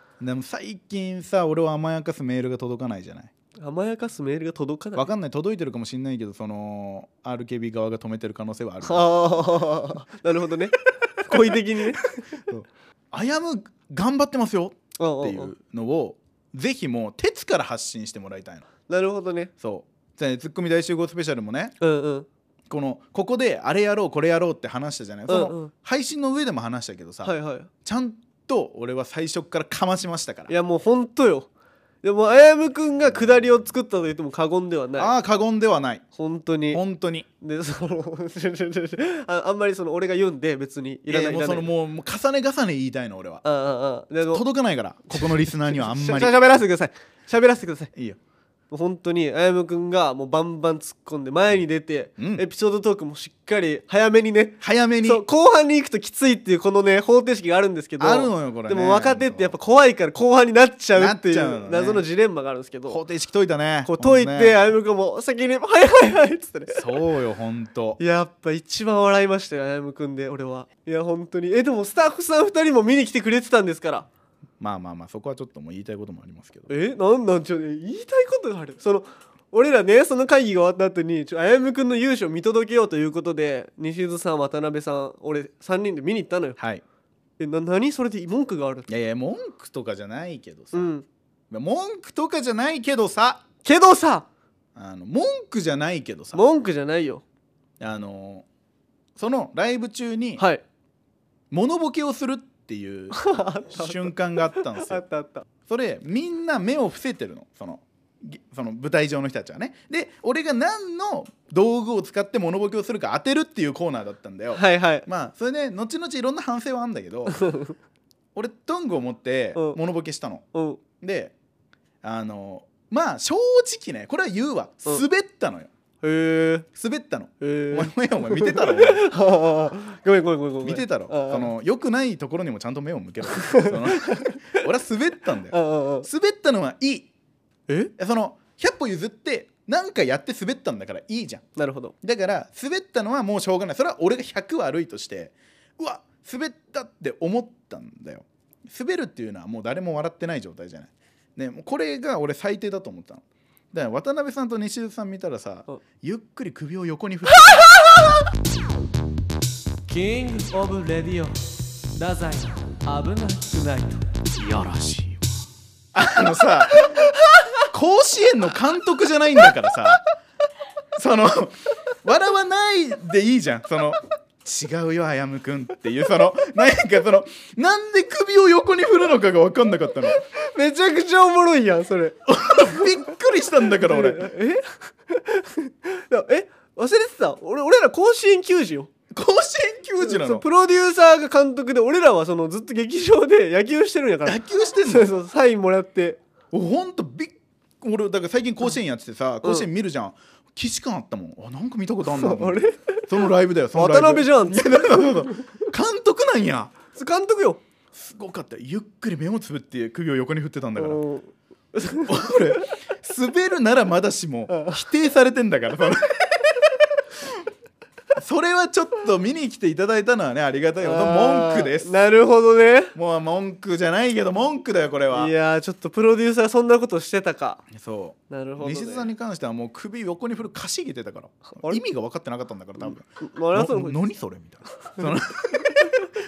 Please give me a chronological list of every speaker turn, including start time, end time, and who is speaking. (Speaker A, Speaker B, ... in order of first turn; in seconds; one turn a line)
Speaker A: 0.2-3.3
Speaker B: 3.6-5.1
Speaker A: 5.0-9.4
Speaker B: 8.8-12.3
Speaker A: 11.3-11.6
Speaker A: 12.3-18.7
Speaker B: 15.0-15.5
Speaker B: 18.9-19.5
Speaker A: 19.6-21.7
Speaker B: 21.8-22.3
Speaker A: 22.7-30.5
Speaker B: 25.3-25.7
Speaker B: 27.2-27.7
Speaker B: 30.5-31.5
Speaker B: 32.0-35.1
Speaker A: 35.0-36.0
Speaker B: 36.1-36.8
Speaker A: 36.7-37.3
Speaker B: 37.4-41.7
Speaker A: 41.1-43.4
Speaker B: 43.4-44.4
Speaker A: 44.3-46.4
Speaker B: 45.1-47.9
Speaker B: 48.7-63.0
Speaker A: 52.2-52.4
Speaker A: 54.6-55.2
Speaker A: 58.0-59.5
Speaker A: 60.9-62.0
Speaker A: 62.9-64.6
Speaker B: 63.9-67.0
Speaker A: 66.7-68.0
Speaker B: 68.0-74.1
Speaker A: 74.6-76.7
Speaker B: 76.7-86.6
Speaker A: 86.6-86.8
Speaker B: 87.4-88.9
Speaker A: 88.9-90.9
Speaker B: 90.7-91.0
Speaker A: 91.5-93.4
Speaker B: 93.6-94.2
Speaker A: 94.7-96.4
Speaker B: 96.3-97.2
Speaker A: 97.8-98.5
Speaker A: 99.2-100.4
Speaker B: 100.4-100.6
Speaker A: 101.5-105.0
Speaker B: 103.1-105.5
Speaker A: 105.7-117.4
Speaker B: 114.5-115.1
Speaker B: 117.3-117.7
Speaker A: 118.3-120.4
Speaker B: 120.5-120.8
Speaker A: 121.0-121.3
Speaker A: 122.0-125.7
Speaker B: 126.0-126.7
Speaker A: 126.7-129.1
Speaker B: 127.4-131.5
Speaker A: 130.6-137.1
Speaker B: 133.4-134.6
Speaker B: 135.5-136.1
Speaker A: 138.0-141.4
Speaker B: 141.6-141.9
Speaker A: 142.0-157.7
Speaker C: 159.9-161.4
Speaker C: 161.9-164.0
Speaker A: 164.3-165.3
Speaker A: 165.9-167.1
Speaker A: 167.7-170.0
Speaker A: 170.9-180.2
Speaker B: 180.2-182.9
Speaker A: 182.3-184.3
Speaker B: 183.7-188.9
Speaker A: 189.1-190.4
Speaker B: 190.0-196.2
Speaker A: 194.2-195.1
Speaker A: 196.5-206.7
Speaker B: 199.4-199.7
Speaker B: 202.1-203.1
Speaker B: 203.7-205.5
Speaker B: 206.9-207.6
Speaker A: 207.9-211.0
Speaker B: 210.8-212.2
Speaker A: 212.0-217.3
Speaker B: 214.5-214.8
Speaker A: 218.2-221.9
Speaker B: 220.8-222.9
Speaker A: 222.9-225.3
Speaker B: 225.1-227.6
Speaker A: 227.7-236.0
Speaker B: 228.3-229.1
Speaker B: 231.5-231.8
Speaker B: 232.8-234.0